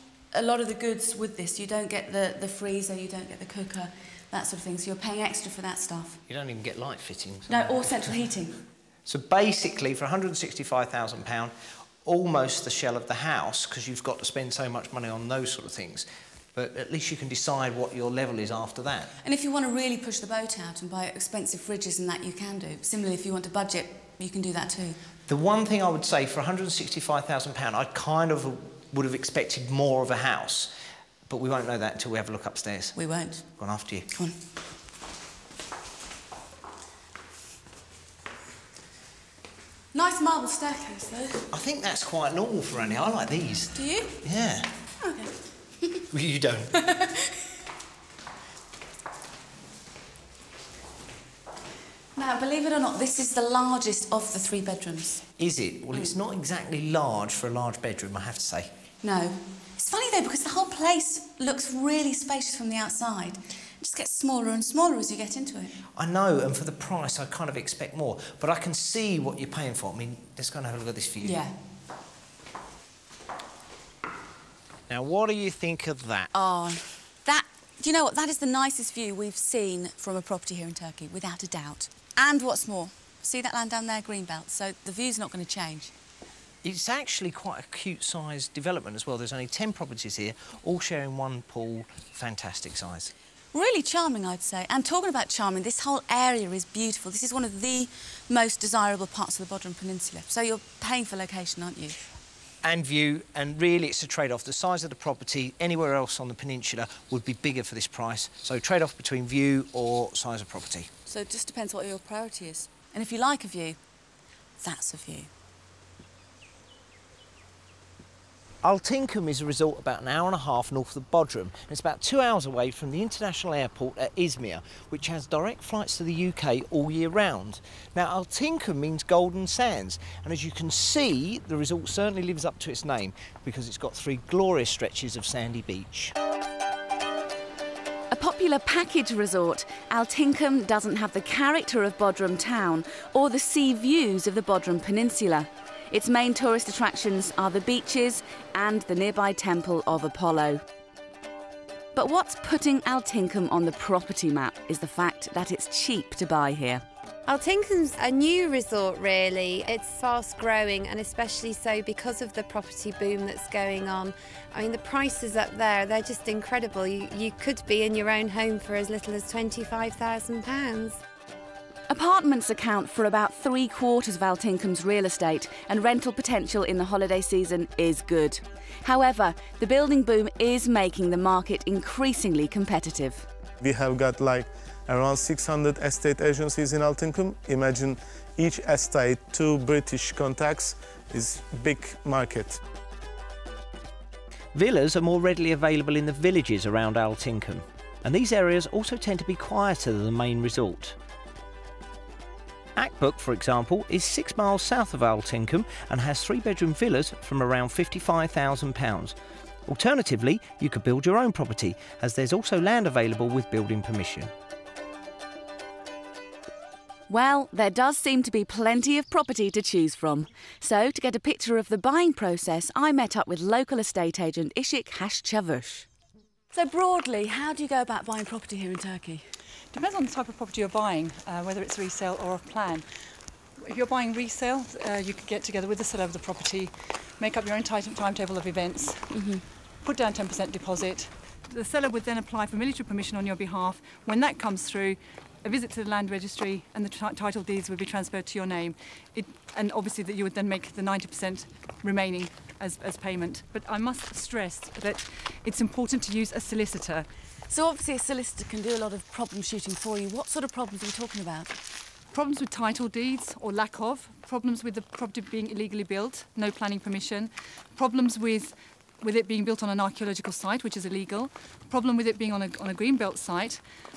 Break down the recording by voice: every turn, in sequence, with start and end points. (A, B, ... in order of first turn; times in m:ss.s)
0:00.3-0:06.2 A
0:06.3-0:07.7 B
0:07.5-0:08.6 A
0:09.1-0:19.1 B
0:19.2-0:25.0 A
0:25.3-0:30.7 B
0:31.3-0:33.0 B
0:33.0-0:33.5 A
0:33.6-0:34.1 B
0:39.9-0:41.5 A
0:41.5-0:44.7 B
0:43.8-0:44.2 A
0:45.0-0:45.3 A
0:46.1-0:46.8 B
0:46.8-0:47.3 A
0:52.2-0:55.2 A
0:55.4-0:58.7 B
0:59.0-1:05.7 A
1:06.0-1:11.4 B
1:11.2-1:11.6 A
1:14.9-1:16.3 B
1:16.3-1:25.9 A
1:26.6-1:33.1 B
1:33.5-1:42.0 A
1:42.6-1:50.9 B
1:51.1-1:53.8 A
1:54.6-1:55.3 A
1:58.6-2:16.2 B
2:18.1-2:30.6 A
2:31.9-2:36.8 A
2:37.3-2:51.0 C
2:51.9-3:03.3 A
3:03.6-3:12.6 D
3:14.5-3:21.0 B
3:22.8-3:34.3 B
3:37.1-3:45.9 A
3:46.5-3:49.2 A
3:49.7-3:52.8 E
3:53.7-3:59.0 E
3:59.1-3:59.4 A
3:59.8-4:17.0 E
4:17.5-4:21.5 A
4:22.1-4:33.6 E